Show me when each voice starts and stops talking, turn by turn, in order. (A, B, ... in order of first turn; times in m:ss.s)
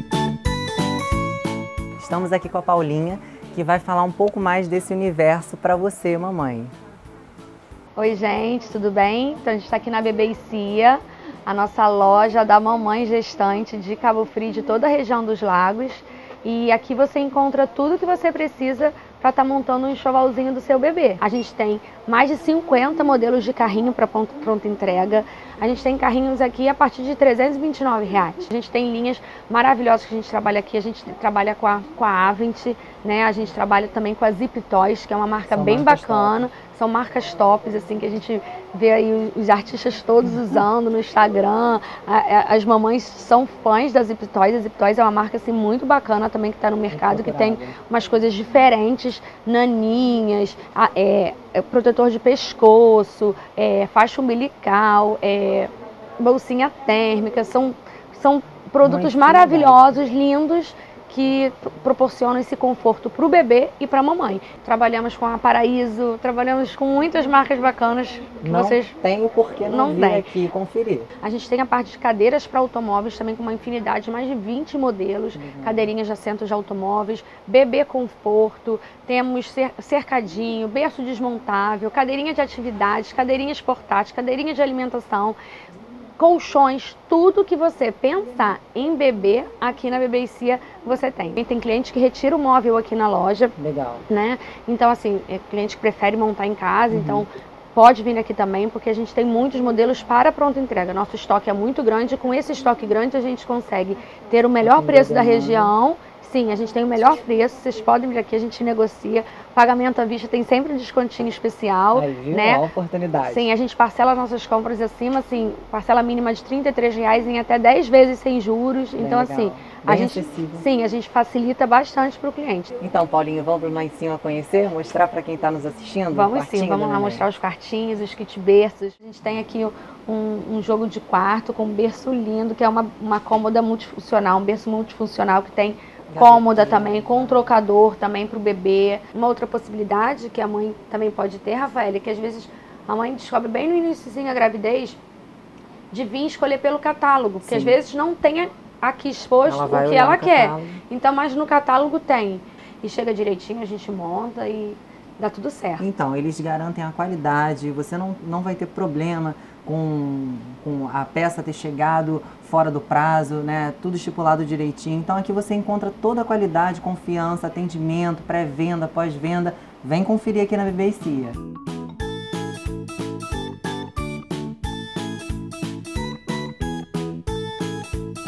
0:02.0-0:06.7 A
0:08.0-1:09.0 B
0:35.5-0:36.5 A
0:46.9-0:47.7 A
0:58.8-1:00.0 A
1:08.4-1:11.1 A
1:09.6-1:10.3 B
1:11.2-1:25.4 B
1:15.3-1:15.9 A
1:26.2-1:33.6 B
1:33.6-1:34.0 A
1:34.1-1:52.6 B
1:36.9-1:37.2 A
1:44.6-1:45.7 A
1:51.9-1:53.5 A
1:53.2-2:02.7 B
1:59.0-2:00.6 A
2:02.8-2:07.2 A
2:06.1-2:25.0 B
2:16.1-2:17.5 A
2:25.9-2:35.9 B
2:27.4-2:27.8 A
2:29.4-2:30.8 A
2:35.8-2:51.4 A